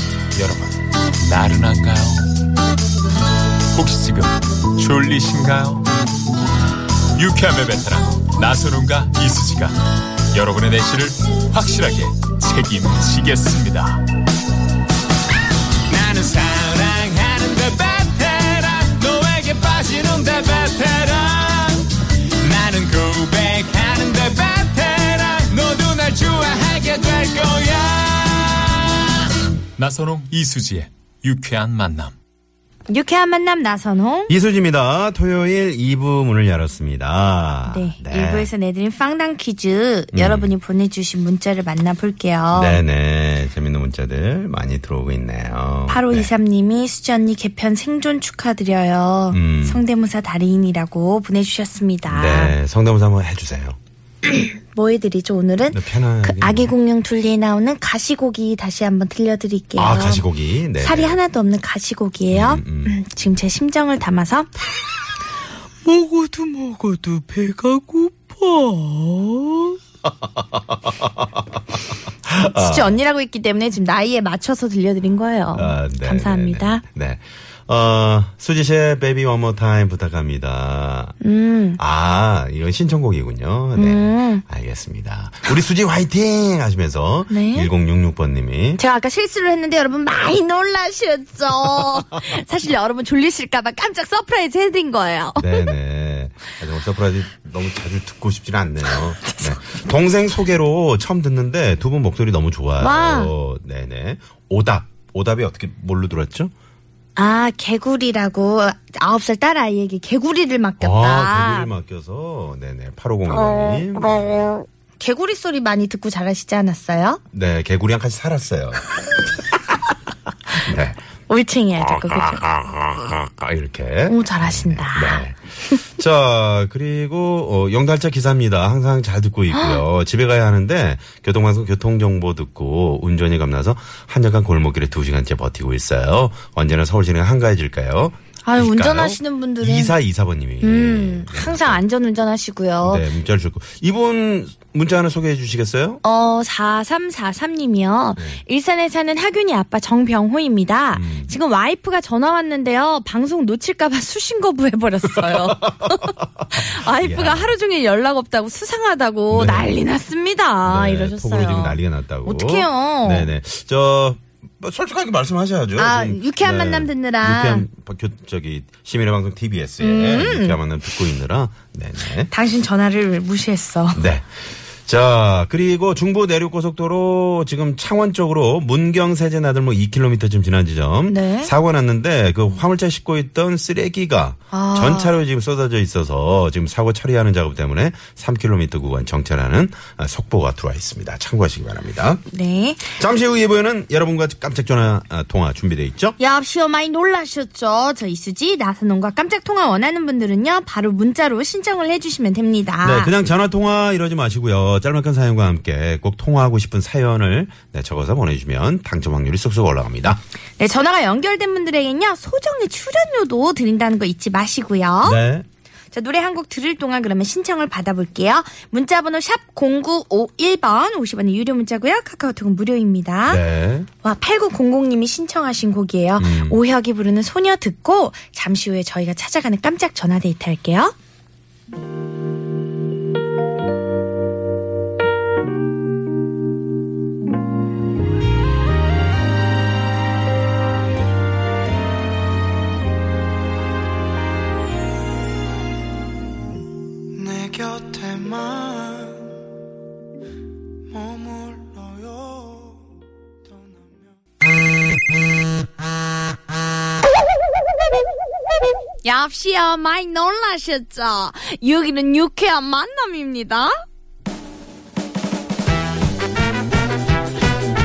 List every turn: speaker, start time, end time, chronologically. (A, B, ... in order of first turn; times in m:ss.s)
0:00.3-0:02.2 A
0:03.7-0:05.8 A
0:07.2-0:09.8 A
0:10.3-0:14.0 A
0:15.9-0:21.8 A
0:22.4-0:29.0 A
0:29.8-0:32.1 A
0:32.9-0:34.3 B
0:34.3-0:38.5 C
0:37.6-0:42.8 B
0:40.1-0:40.5 C
0:42.5-0:46.3 C
0:45.9-0:52.6 B
0:49.3-0:49.8 C
0:52.1-0:53.8 C
0:54.3-1:04.5 B
0:55.7-0:56.7 C
0:59.8-1:01.2 C
1:02.3-1:03.0 C
1:05.8-1:09.8 B
1:10.2-1:11.2 C
1:12.2-1:13.0 C
1:12.3-1:16.8 B
1:15.5-1:21.2 C
1:21.2-1:21.8 B
1:21.8-1:28.8 C
1:23.7-1:24.4 B
1:27.3-1:27.7 B
1:28.8-1:35.7 B
1:35.4-1:46.5 C
1:38.8-1:39.6 B
1:42.8-1:43.3 B
1:47.2-1:51.7 B
1:50.8-1:54.5 C
1:55.0-1:57.2 B
1:57.3-1:58.8 C
2:00.6-2:01.0 C
2:01.3-2:02.4 B
2:01.8-2:21.8 C
2:04.1-2:05.8 B
2:09.5-2:09.8 B
2:18.4-2:19.9 B
2:20.6-2:23.1 B
2:22.8-2:26.0 C
2:26.0-2:43.3 B
2:30.9-2:31.4 C
2:35.2-2:36.0 C
2:36.5-2:37.6 C
2:39.3-2:39.8 C
2:40.6-2:52.3 C
2:45.8-2:47.7 B
2:49.8-2:50.6 B
2:52.3-2:54.0 B
2:53.9-3:12.2 C
3:01.1-3:01.5 B
3:04.5-3:05.1 B
3:12.3-3:12.9 B
3:12.9-3:16.2 C
3:16.2-3:23.1 B
3:22.8-3:30.2 C
3:30.6-3:35.2 B
3:35.0-3:35.4 C
3:35.9-3:43.4 B
3:43.2-3:43.9 C
3:44.0-3:50.9 B
3:46.2-3:46.6 C
4:07.2-4:09.2 D
4:10.9-4:12.6 D
4:19.0-4:23.7 B